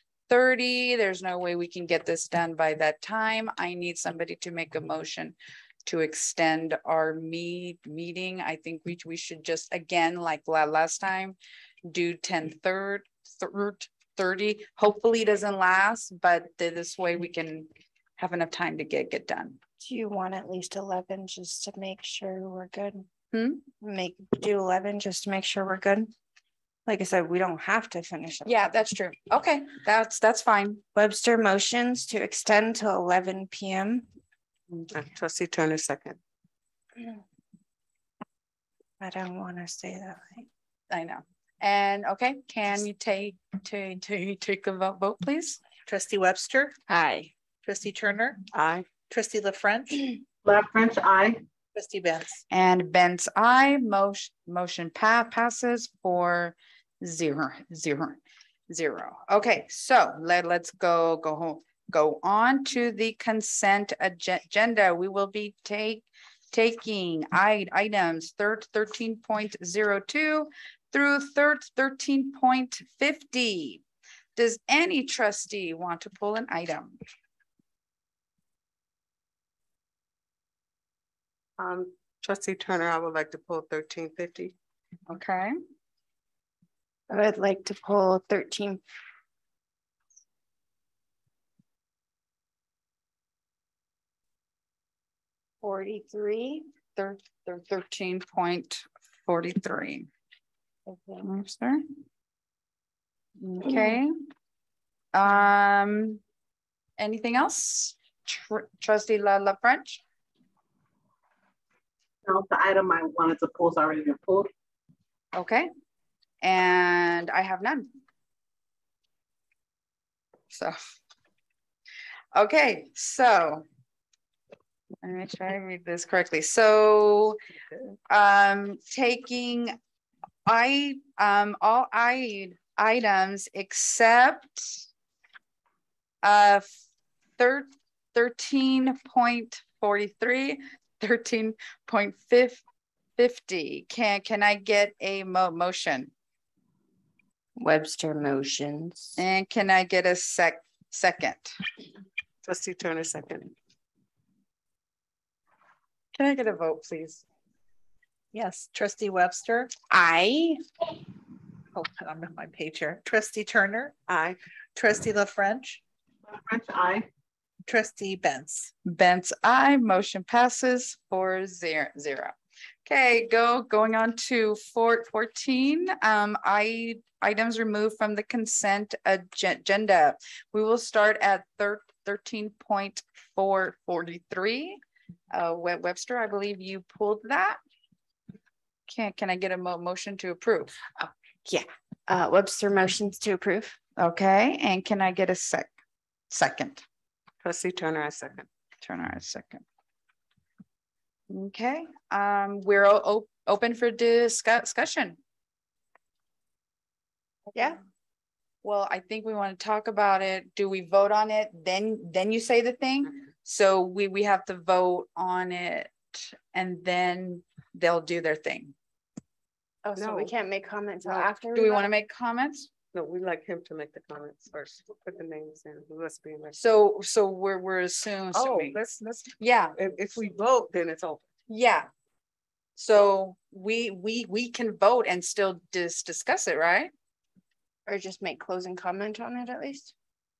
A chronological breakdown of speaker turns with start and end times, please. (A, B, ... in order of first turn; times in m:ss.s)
0:00.3-0:19.6 A
0:19.8-0:23.1 B
0:23.3-0:23.6 A
0:23.8-0:26.1 B
0:26.8-0:28.6 B
0:28.4-0:30.8 A
0:30.9-0:34.0 B
0:34.9-0:36.2 C
0:39.0-0:40.4 B
0:40.9-0:45.6 A
0:45.8-0:46.8 D
0:46.9-0:47.3 B
0:47.6-0:48.4 D
0:48.5-0:48.9 C
0:49.0-0:50.0 D
0:50.4-0:51.4 E
0:51.7-0:52.4 D
0:52.5-1:13.8 A
1:14.4-1:17.0 A
1:21.6-1:24.5 C
1:25.1-1:25.5 A
1:27.1-1:28.8 B
1:35.6-1:36.7 B
1:37.0-1:40.1 A
1:40.9-1:41.3 B
1:41.2-1:41.8 A
1:43.4-1:44.1 A
1:45.1-1:46.2 A
1:47.0-1:50.0 A
1:52.2-1:54.5 E
1:55.3-1:55.7 A
1:56.4-1:57.9 A
2:00.5-2:00.8 A
2:02.3-2:03.6 A
2:05.0-2:07.4 A
2:08.1-2:09.8 A
2:10.4-2:14.8 A
2:16.2-2:16.7 A
2:17.4-2:22.6 A
2:23.2-2:26.1 A
2:27.6-2:29.1 B
2:29.2-2:31.5 A
2:32.4-2:33.5 C
2:36.1-2:37.2 A
2:38.3-2:38.6 C
2:38.7-2:39.7 D
2:39.9-2:40.6 B
2:41.7-2:43.9 D
2:44.1-2:44.4 C
2:44.8-2:45.8 D
2:46.2-2:47.1 E
2:47.6-2:48.7 D
2:48.8-2:52.3 A
2:52.8-3:04.8 A
3:05.3-3:07.6 A
3:08.9-3:10.7 A
3:11.4-3:13.8 B
3:14.0-3:15.7 A
3:16.3-3:16.8 A
3:17.4-3:18.5 C
3:18.8-3:19.6 A
3:21.3-3:25.2 A
3:28.6-3:38.7 A
3:39.8-3:41.9 B
3:40.0-3:40.3 C
3:41.5-3:42.7 A
3:42.9-3:46.6 C
3:46.6-3:48.8 A
3:48.3-3:51.2 C
3:49.4-3:49.8 A
3:51.5-3:51.9 A
3:52.8-3:56.9 A
3:57.8-3:59.9 B